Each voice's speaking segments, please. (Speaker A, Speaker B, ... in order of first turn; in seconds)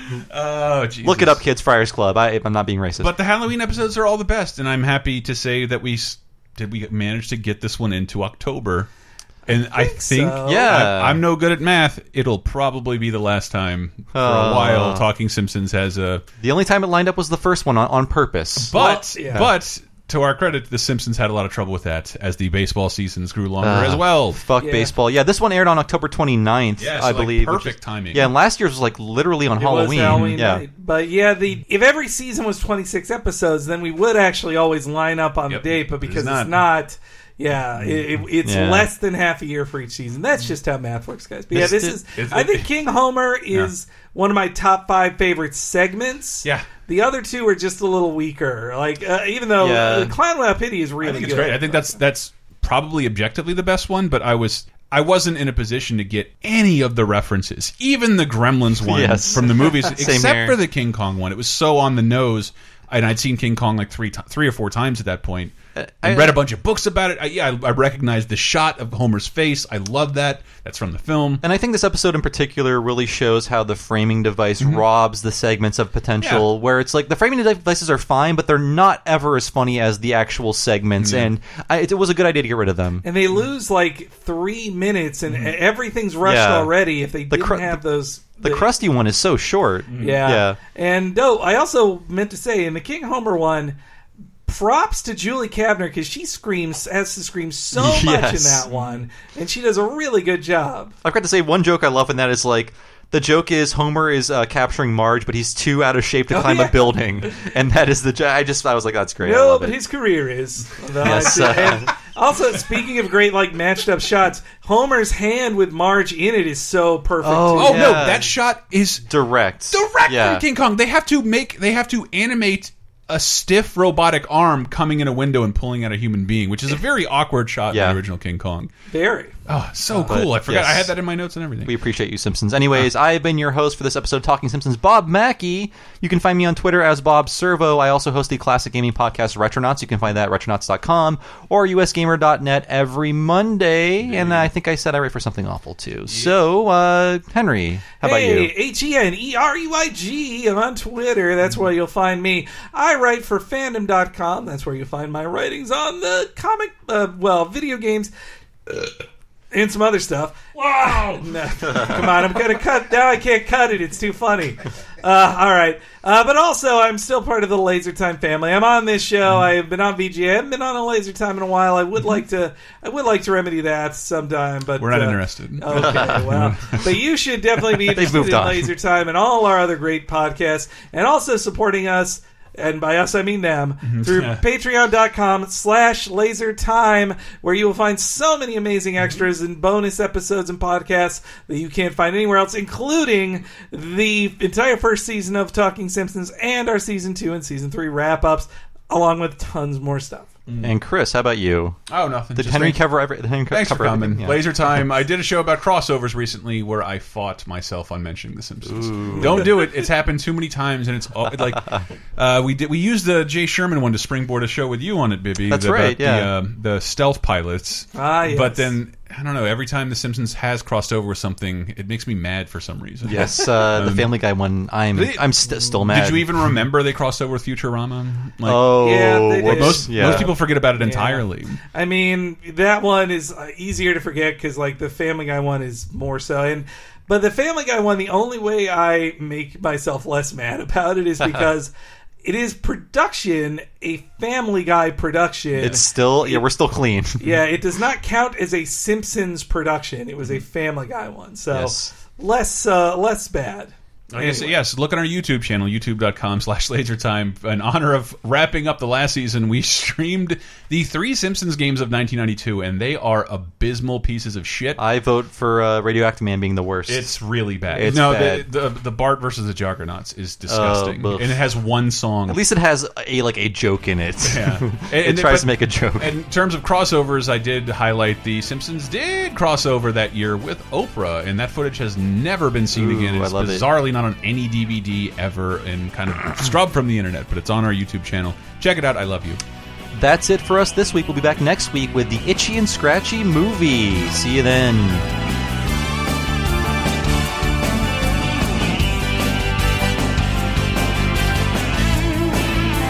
Speaker A: 0.1-1.4, 3.0-8.9, 9.5-16.2, 18.6-24.4, 26.8-28.3, 30.0-30.4, 35.5-36.6, 41.5-42.7, 46.4-46.8, 51.0-71.4, 76.2-76.5, 81.0-81.3, 89.9-90.2, 98.7-99.0, 117.5-119.0, 119.7-128.7, 129.5-131.7, 144.1-144.5, 174.8-176.8, 183.8-184.4, 189.0-189.2, 200.5-200.7, 201.9-202.8, 203.5-224.1, 224.9-231.6, 245.5-245.8, 254.1-264.8, 266.9-272.4, 274.2-289.4
Speaker B: 1.0-3.1, 10.4-11.2, 14.1-15.0, 16.4-18.8, 23.6-30.6, 38.4-38.9, 41.5-42.0, 49.6-50.1, 58.9-60.6, 65.8-66.4, 71.4-83.0, 86.2-86.7, 87.3-87.8, 88.4-90.6, 97.7-98.6, 101.0-109.8, 111.0-111.9, 117.2-118.3, 119.1-120.4, 127.7-128.0, 130.1-130.9, 131.7-148.5, 175.7-176.2, 177.8-178.7, 200.6-201.8, 202.3-204.5, 208.7-209.6, 215.5-216.3, 223.0-226.2, 228.4-230.3, 245.6-247.3, 251.5-251.9, 264.8-267.1, 267.7-268.5, 270.5-271.4, 272.3-276.1, 282.7-283.7, 289.9-295.1
Speaker C: 9.5-10.7, 18.7-19.5, 24.6-24.9, 29.6-51.9, 83.0-88.7, 90.0-93.8, 94.5-100.9, 106.3-107.5, 109.2-118.1, 128.9-129.4, 129.9-130.2, 148.0-158.1, 159.5-200.3, 209.1-209.8, 217.9-218.8, 228.8-241.7, 242.2-246.4, 247.2-254.6